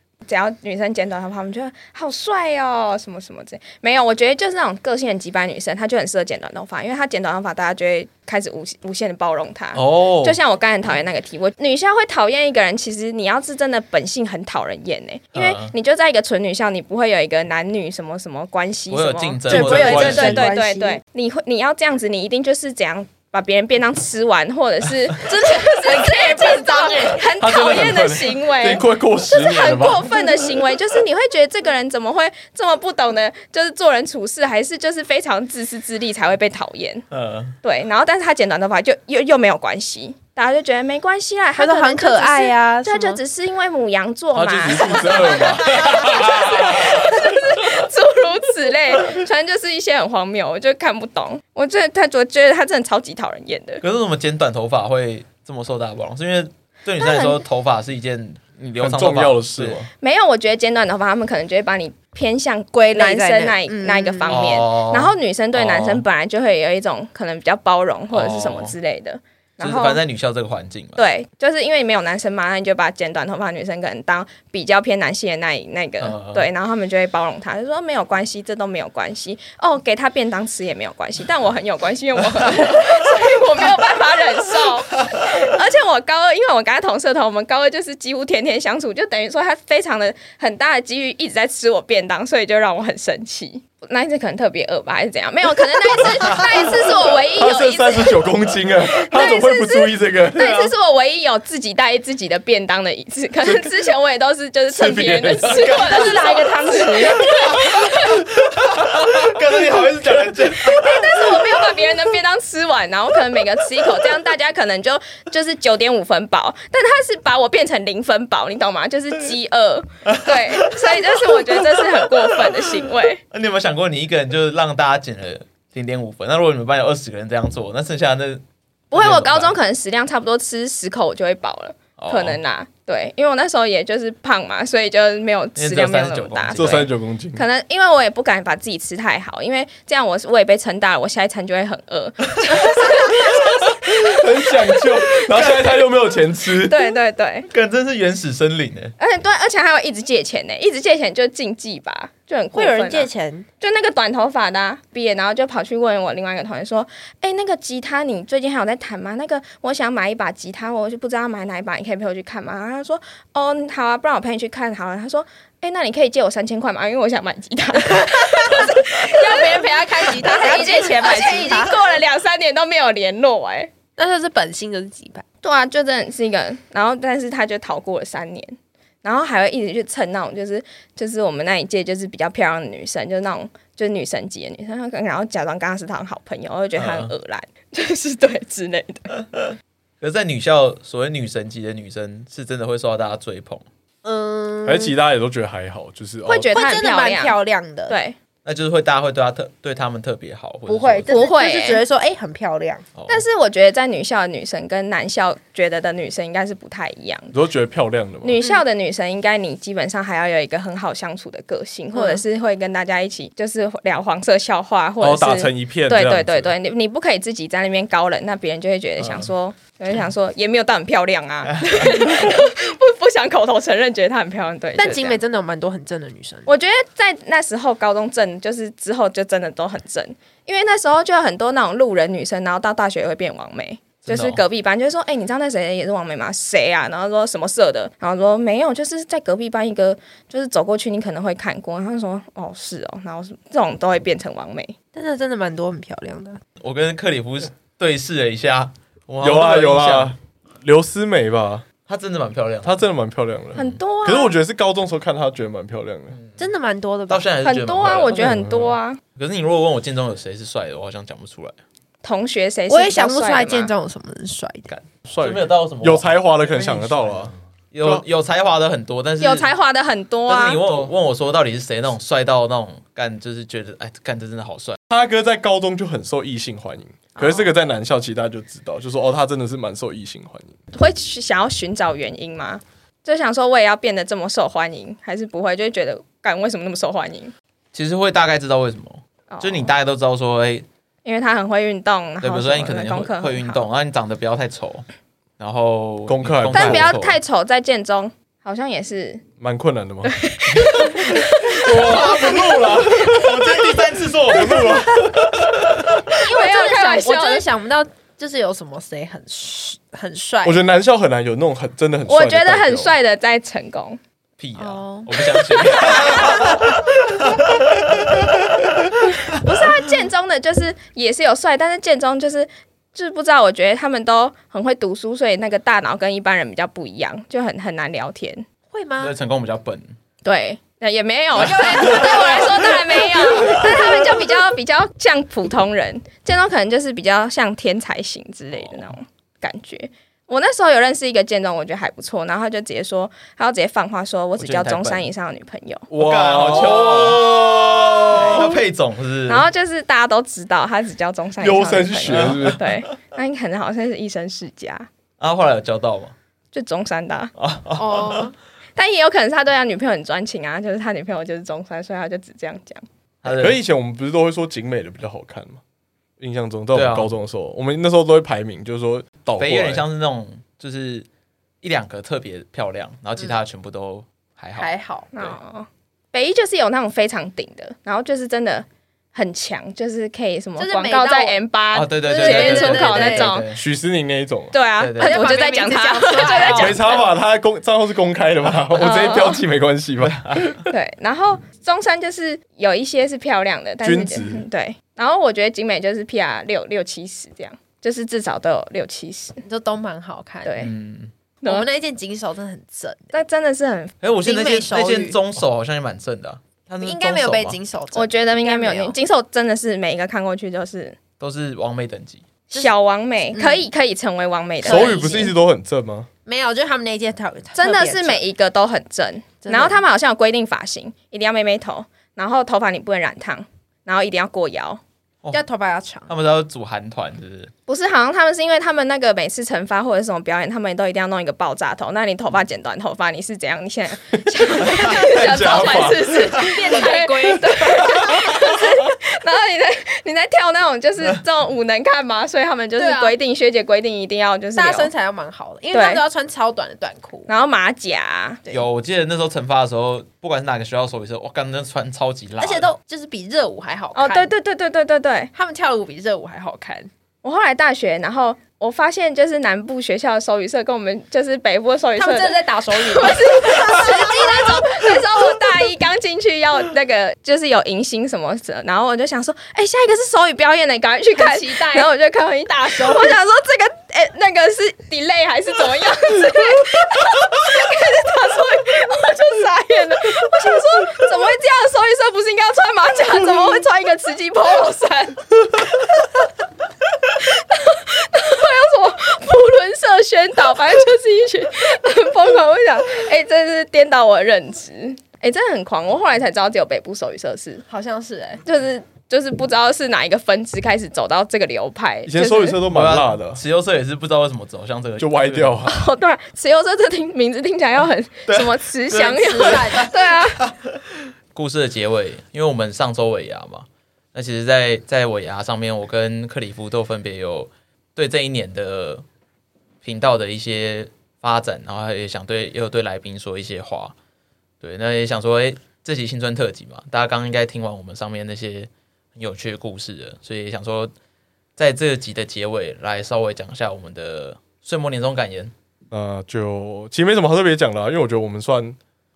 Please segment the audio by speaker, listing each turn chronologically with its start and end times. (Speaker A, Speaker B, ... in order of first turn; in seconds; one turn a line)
Speaker A: 0.2-37.0
Speaker B: 9.7-10.4
Speaker B: 15.3-15.7
Speaker B: 18.9-20.5
Speaker C: 19.5-20.5
Speaker D: 19.5-21.0
Speaker D: 25.2-27.2
Speaker C: 27.4-30.3
Speaker B: 37.1-37.5
Speaker A: 37.6-53.8
Speaker D: 41.5-43.2
Speaker C: 44.3-47.1
Speaker B: 45.6-47.1
Speaker B: 53.8-59.8
Speaker A: 57.0-57.4
Speaker C: 58.8-59.9
Speaker A: 60.0-70.0
Speaker D: 62.7-64.4
Speaker B: 64.3-66.0
Speaker B: 68.1-68.7
Speaker B: 69.6-71.0
Speaker A: 71.0-98.2
Speaker B: 76.0-76.5
Speaker C: 97.3-100.7
Speaker A: 98.8-108.2
Speaker C: 103.4-103.8
Speaker C: 104.7-105.8
Speaker B: 105.5-106.4
Speaker D: 105.7-107.7
Speaker B: 108.7-110.9
Speaker C: 108.8-109.1
Speaker A: 110.6-123.2
Speaker B: 120.1-121.3
Speaker B: 123.3-129.6
Speaker A: 128.9-145.8
Speaker B: 132.0-132.4
Speaker B: 135.6-136.9
Speaker C: 136.6-137.4
Speaker C: 143.7-146.9
Speaker A: 146.4-147.5
Speaker B: 147.5-148.9
Speaker A: 149.0-153.1
Speaker D: 152.5-153.4
Speaker A: 153.6-173.7
Speaker D: 168.0-171.8
Speaker D: 174.0-175.2
Speaker A: 175.4-189.1
Speaker B: 186.8-187.1
Speaker B: 190.0-193.6
Speaker D: 194.0-194.9
Speaker C: 194.6-196.5
Speaker A: 196.2-197.4
Speaker D: 196.5-198.0
Speaker A: 197.9-198.2
Speaker B: 198.4-201.1
Speaker D: 200.7-202.8
Speaker A: 201.1-201.8
Speaker B: 203.0-203.2
Speaker A: 203.1-207.3
Speaker C: 207.3-208.4
Speaker A: 208.2-225.2
Speaker D: 211.9-212.2
Speaker C: 215.0-216.5
Speaker B: 219.0-219.3
Speaker D: 224.8-226.5
Speaker A: 226.4-244.7
Speaker B: 234.1-234.4
Speaker D: 244.9-246.4
Speaker B: 246.6-250.1
Speaker C: 249.2-251.6
Speaker B: 251.9-252.8
Speaker C: 252.6-256.2
Speaker A: 253.5-254.3
Speaker B: 256.1-256.5
Speaker D: 256.4-257.2
Speaker B: 257.1-258.4
Speaker A: 257.4-259.0
Speaker C: 258.1-258.7
Speaker B: 259.1-261.6
Speaker A: 262.0-263.7
Speaker D: 262.7-264.7
Speaker B: 264.7-269.5
Speaker C: 265.1-268.0
Speaker A: 269.2-270.6
Speaker B: 270.3-274.8
Speaker C: 274.9-280.6
Speaker A: 280.7-287.3
Speaker B: 287.7-290.6
Speaker A: 289.3-289.7
Speaker A: 291.0-293.6
Speaker B: 292.2-294.8
Speaker B: 295.4-297.2
Speaker C: 296.1-297.0
Speaker A: 296.5-299.2
Speaker C: 299.4-300.1
Speaker A: 300.0-303.2
Speaker B: 300.6-305.6
Speaker C: 300.7-303.5
Speaker C: 304.3-305.8
Speaker D: 306.1-310.6
Speaker A: 306.2-307.4
Speaker C: 310.4-312.9
Speaker A: 312.1-314.0
Speaker B: 314.4-316.6
Speaker D: 314.6-316.6
Speaker A: 319.3-328.4
Speaker D: 328.7-329.1
Speaker B: 329.0-329.9
Speaker A: 330.2-345.9
Speaker B: 344.4-345.1
Speaker C: 345.9-348.6
Speaker B: 345.9-349.4
Speaker A: 349.3-354.9
Speaker C: 351.4-352.6
Speaker B: 352.1-352.6
Speaker B: 355.2-356.1
Speaker A: 356.5-357.3
Speaker B: 357.4-358.3
Speaker D: 357.8-358.3
Speaker A: 358.8-362.8
Speaker B: 363.2-363.6
Speaker C: 363.2-365.6
Speaker C: 366.2-369.8
Speaker B: 366.7-367.1
Speaker B: 369.4-371.1
Speaker B: 371.6-375.4
Speaker D: 374.6-375.1
Speaker A: 375.1-383.4
Speaker D: 380.6-381.4
Speaker B: 381.7-383.6
Speaker D: 382.1-383.3
Speaker C: 383.5-384.5
Speaker A: 384.5-387.0
Speaker B: 384.8-385.3
Speaker D: 385.0-386.9
Speaker C: 386.5-390.4
Speaker A: 388.8-389.4
Speaker B: 390.0-390.5
Speaker A: 390.5-399.4
Speaker C: 393.8-394.4
Speaker D: 399.4-400.7
Speaker A: 400.4-400.7
Speaker B: 400.6-401.1
Speaker A: 401.4-401.7
Speaker D: 401.4-403.1
Speaker A: 403.1-404.0
Speaker B: 404.0-407.6
Speaker D: 404.2-405.2
Speaker D: 406.8-409.0
Speaker A: 407.9-411.0
Speaker B: 411.2-412.2
Speaker A: 412.5-415.3
Speaker D: 413.3-413.6
Speaker C: 414.6-416.1
Speaker D: 414.6-415.3
Speaker D: 416.2-418.2
Speaker A: 417.5-424.8
Speaker D: 419.4-419.8
Speaker D: 425.3-426.1
Speaker B: 426.1-427.5
Speaker A: 427.7-444.9
Speaker C: 434.6-436.3
Speaker D: 436.3-437.8
Speaker D: 442.8-443.1
Speaker D: 444.6-447.3
Speaker A: 445.7-446.0
Speaker A: 447.3-448.4
Speaker B: 448.5-452.7
Speaker D: 452.4-454.3
Speaker A: 453.9-455.3
Speaker D: 455.3-456.9
Speaker A: 457.2-486.0
Speaker D: 462.0-465.2
Speaker D: 471.1-471.9
Speaker D: 472.7-473.1
Speaker A: 487.1-497.6
Speaker D: 497.7-498.4
Speaker A: 498.4-502.6
Speaker C: 502.1-503.4
Speaker B: 502.7-505.6
Speaker C: 505.0-505.8
Speaker A: 505.6-510.5
Speaker B: 508.3-508.5
Speaker D: 508.9-509.9
Speaker B: 511.3-519.0
Speaker B: 519.8-523.9
Speaker B: 524.6-530.9
Speaker B: 531.6-535.5
Speaker C: 535.9-538.8